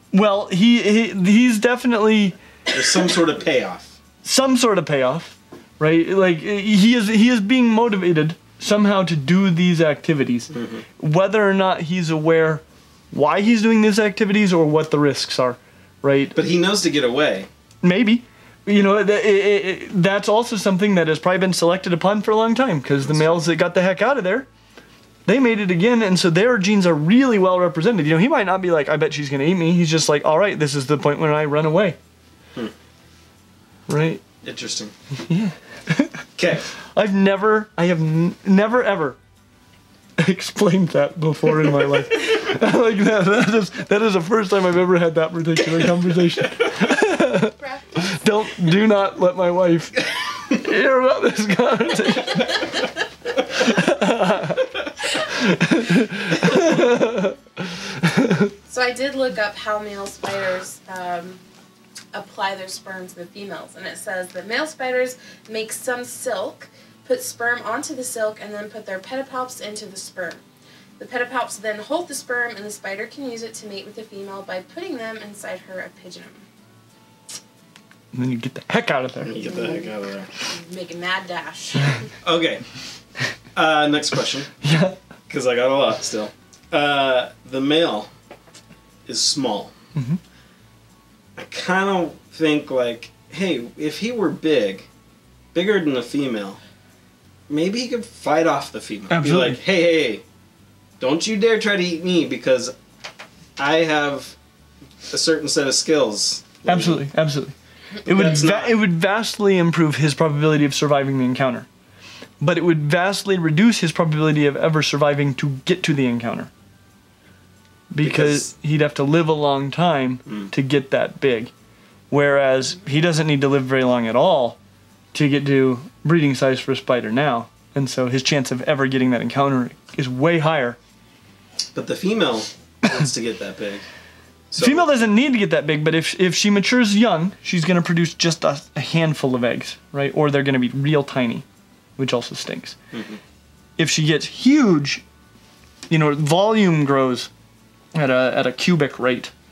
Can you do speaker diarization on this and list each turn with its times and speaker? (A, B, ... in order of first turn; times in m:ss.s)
0:00.1-0:02.4 A
0:02.7-0:04.0 B
0:04.2-0:16.4 A
0:10.5-0:10.8 B
0:16.3-0:17.5 B
0:17.8-0:24.5 A
0:23.0-0:23.4 B
0:25.2-0:32.0 A
0:33.9-0:34.2 A
0:34.4-0:34.9 B
0:35.3-0:36.3 A
0:36.4-0:36.7 B
0:36.9-0:39.2 A
0:40.2-0:52.8 A
0:47.4-0:48.1 C
0:53.6-0:54.6 A
0:55.2-0:58.5 A
0:58.7-1:01.4 C
1:02.1-1:10.4 C
1:11.0-1:16.4 C
1:18.1-1:19.3 A
1:19.2-1:20.3 B
1:19.4-1:22.0 C
1:22.2-1:22.6 B
1:23.5-1:24.5 B
1:24.6-1:25.0 A
1:25.3-1:28.1 B
1:29.0-1:29.7 B
1:29.9-1:30.2 A
1:31.4-1:34.9 B
1:35.5-1:36.6 B
1:37.5-1:40.2 B
1:39.1-1:39.6 A
1:41.0-1:42.7 B
1:43.6-1:44.4 B
1:45.1-1:47.0 B
1:46.6-1:51.7 A
1:48.0-1:48.8 B
1:52.4-1:56.5 A
1:57.9-2:01.5 A
1:58.0-1:58.5 B
2:00.3-2:00.5 B
2:02.1-2:04.6 A
2:05.1-2:10.8 A
2:11.7-2:13.8 B
2:14.5-2:15.0 B
2:14.6-2:21.4 A
2:22.0-2:22.8 A
2:22.9-2:23.2 B
2:23.8-2:25.0 A
2:25.9-2:27.3 A
2:27.9-2:29.3 A